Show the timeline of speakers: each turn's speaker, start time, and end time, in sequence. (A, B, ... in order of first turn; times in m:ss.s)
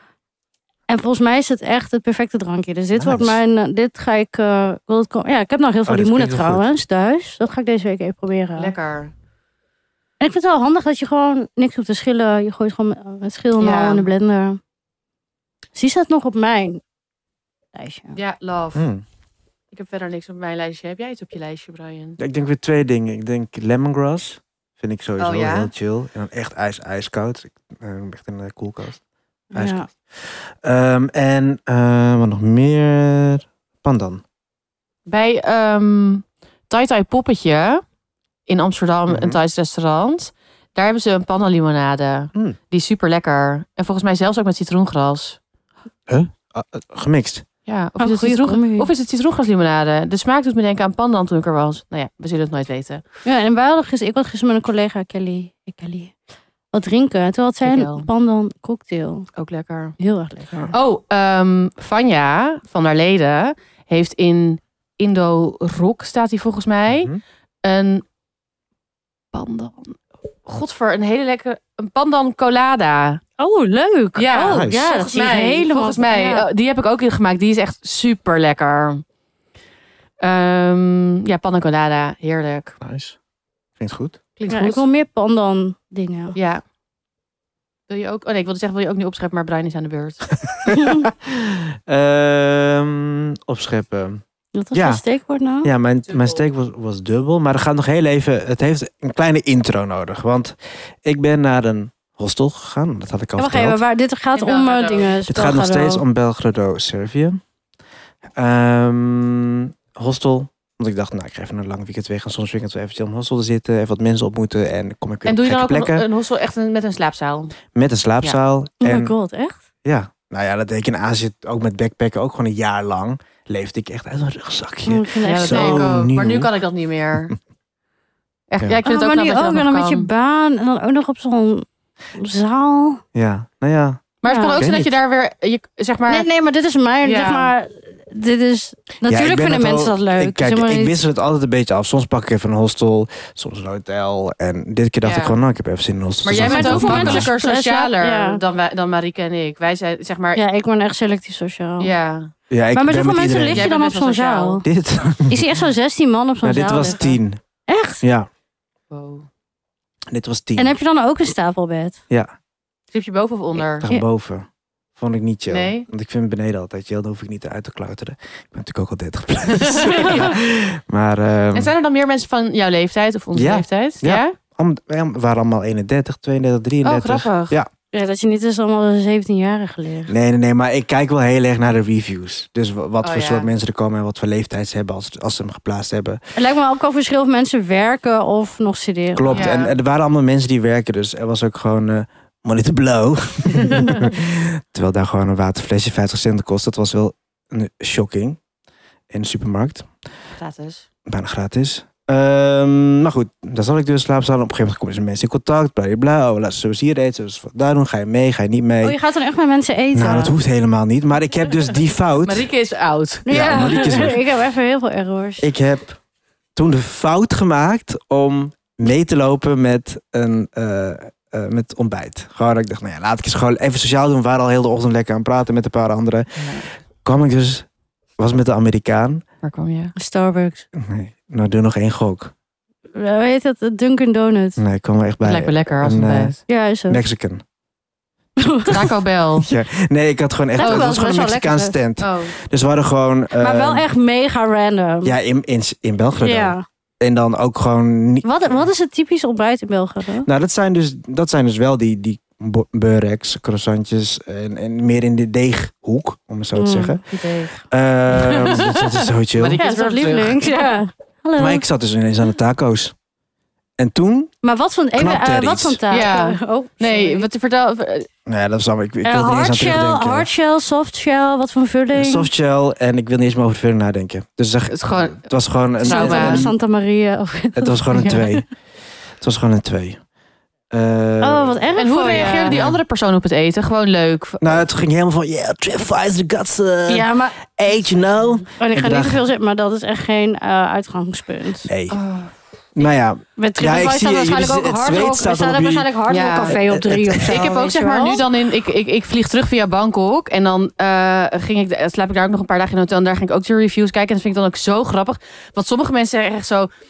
0:00.9-0:08.7 A
0:02.9-0:03.4 B
0:05.9-0:06.7 B
0:08.6-0:09.1 C
0:10.2-0:14.6 A
0:13.6-0:14.1 C
0:15.8-0:16.8 A
0:17.8-0:18.2 A
0:18.2-0:18.8 C
0:18.8-0:19.0 B
0:19.7-0:22.2 C
0:22.2-0:29.0 B
0:25.2-0:25.7 C
0:29.5-0:29.9 A
0:29.5-0:34.2 B
0:35.1-0:37.8 C
0:38.5-0:45.4 C
0:39.1-0:39.4 B
0:46.1-0:47.4 B
0:47.7-0:53.0 C
0:48.0-0:48.9 A
0:53.2-0:56.1 A
0:56.7-0:59.3 A
0:57.6-0:58.1 C
0:59.4-1:00.0 C
1:00.0-1:00.7 A
1:00.7-1:07.1 C
1:06.9-1:07.2 B
1:07.6-1:08.0 C
1:09.3-1:13.2 C
1:13.4-1:16.5 A
1:14.2-1:19.0 C
1:14.5-1:14.9 B
1:20.2-1:22.8 C
1:22.8-1:23.2 B
1:23.8-1:24.2 B
1:24.4-1:24.8 C
1:24.5-1:26.4 A
1:26.4-1:26.6 C
1:27.9-1:30.3 C
1:30.4-1:34.2 B
1:34.6-1:35.7 A
1:34.7-1:35.0 B
1:35.6-1:43.8 B
1:36.1-1:36.4 C
1:43.4-1:46.0 A
1:44.4-1:45.2 C
1:45.3-1:47.4 B
1:48.4-1:56.0 B
1:55.2-1:57.6 C
1:57.8-1:59.1 B
1:58.8-1:59.6 A
1:59.8-2:06.5 B
2:04.9-2:05.9 A
2:05.2-2:07.4 C
2:08.5-2:10.1 C
2:08.8-2:13.0 A
2:13.1-2:14.0 B
2:14.2-2:16.3 C
2:14.2-2:14.6 A
2:14.6-2:14.9 B
2:16.1-2:21.0 A
2:17.0-2:17.5 C
2:19.1-2:27.3 B
2:25.0-2:25.4 C
2:26.2-2:30.4 C
2:26.4-2:28.4 A
2:30.4-2:31.9 A
2:31.8-2:32.3 C
2:32.5-2:33.7 B
2:32.8-2:34.6 A
2:33.5-2:34.6 C
2:34.6-2:35.6 B
2:35.3-2:38.0 A
2:36.4-2:37.4 B
2:38.0-2:38.3 B
2:38.9-2:39.3 C
2:40.1-2:40.8 B
2:40.6-2:42.0 A
2:42.9-2:43.9 C
2:43.6-2:51.7 B
2:45.5-2:45.9 C
2:49.6-2:50.4 C
2:51.5-2:54.4 C
2:53.3-2:57.7 B
2:56.8-2:57.6 C
2:57.9-3:00.1 A
3:00.1-3:06.2 B
3:03.0-3:03.5 C
3:06.4-3:09.5 A
3:09.2-3:18.4 B
3:09.3-3:09.7 C
3:13.7-3:14.0 C
3:19.1-3:19.9 B
3:20.4-3:20.9 C
3:21.1-3:29.0 B
3:28.8-3:30.3 A
3:29.9-3:32.5 B
3:32.2-3:33.8 C
3:33.3-3:35.5 A
3:33.3-3:34.2 B
3:35.4-3:36.0 B
3:36.6-3:47.7 B
3:46.4-3:46.7 C
3:48.2-3:49.2 B
3:49.4-3:49.9 C
3:50.0-3:50.6 A
3:50.8-3:52.3 B
3:53.0-3:54.6 A
3:54.6-3:56.4 B
3:55.2-3:56.4 C
3:56.5-3:57.0 A
3:56.9-3:57.4 B
3:58.4-3:58.9 A
3:58.7-3:59.5 C
3:59.4-4:03.9 B
4:00.6-4:01.8 A
4:00.6-4:00.9 C
4:02.0-4:02.4 C
4:03.4-4:05.2 A
4:05.0-4:08.6 B
4:06.2-4:06.6 A
4:08.2-4:10.3 A
4:10.2-4:17.0 B
4:16.6-4:17.6 A
4:17.7-4:19.6 B
4:18.1-4:20.6 C
4:19.6-4:21.6 A
4:21.4-4:22.9 B
4:23.8-4:24.3 B
4:24.4-4:27.3 A
4:24.9-4:25.8 B
4:25.9-4:28.1 C
4:28.3-4:30.3 B
4:29.0-4:32.3 A
4:31.9-4:36.5 B
4:34.7-4:35.2 C
4:35.8-4:36.5 C
4:35.8-4:38.4 A
4:37.6-4:38.5 B
4:39.2-4:40.0 B
4:40.7-4:42.8 B
4:41.2-4:42.6 A
4:41.8-4:44.6 C
4:44.4-4:49.2 B
4:46.9-4:47.4 A
4:48.6-4:51.7 A
4:51.6-4:52.0 B
4:51.9-4:52.8 C
4:52.8-4:55.9 B
4:53.4-4:58.2 A
4:56.1-4:56.6 C
4:56.6-4:57.5 B
4:57.3-5:06.7 C